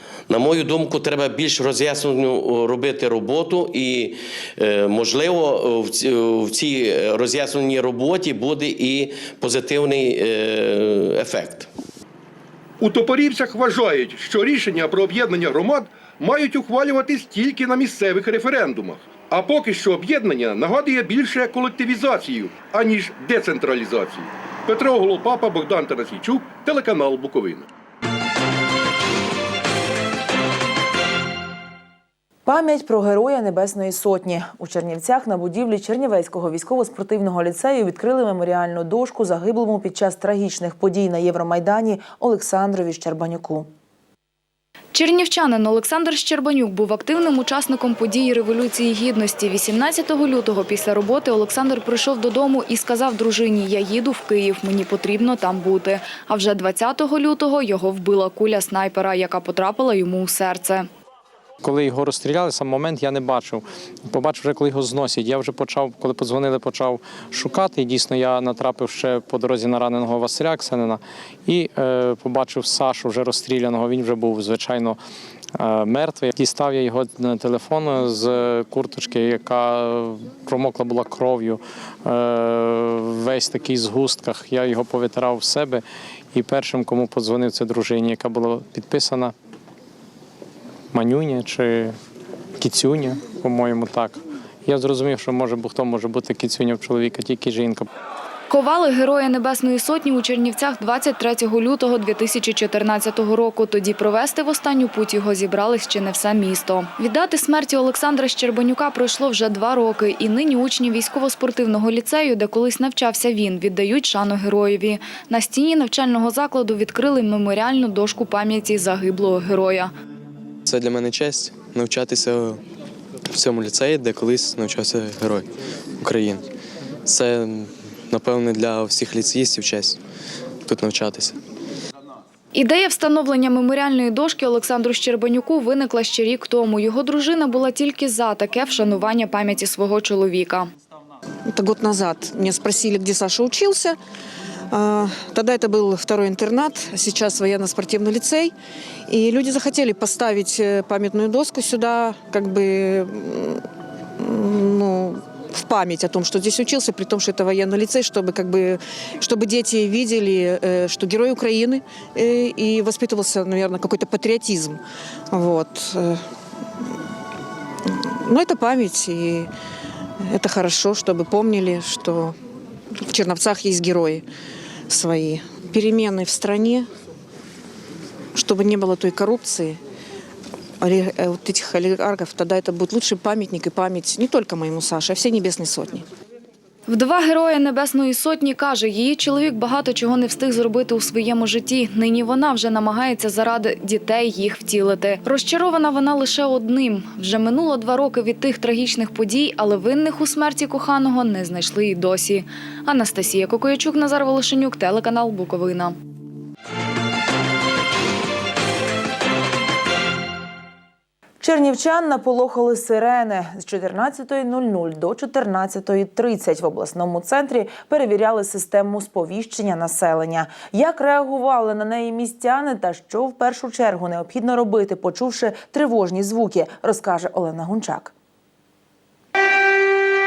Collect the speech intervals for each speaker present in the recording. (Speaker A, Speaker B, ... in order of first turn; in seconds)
Speaker A: 0.3-11.7
Speaker B: 12.8-27.7
Speaker C: 32.5-43.7, 211.4-228.1
Speaker D: 44.9-60.9, 98.5-119.9, 132.5-140.7, 186.9-205.9
Speaker E: 61.6-75.0, 75.6-89.3, 90.9-91.9, 92.6-97.9
Speaker F: 120.7-122.6, 123.2-126.5, 127.0-130.0, 130.6-131.4
Speaker G: 141.5-144.0, 144.7-148.5, 149.1-153.6, 154.2-164.8, 165.3-166.2, 168.0-169.5, 170.3-172.3, 173.1-174.2, 174.9-176.9, 178.3-179.8, 180.8-186.0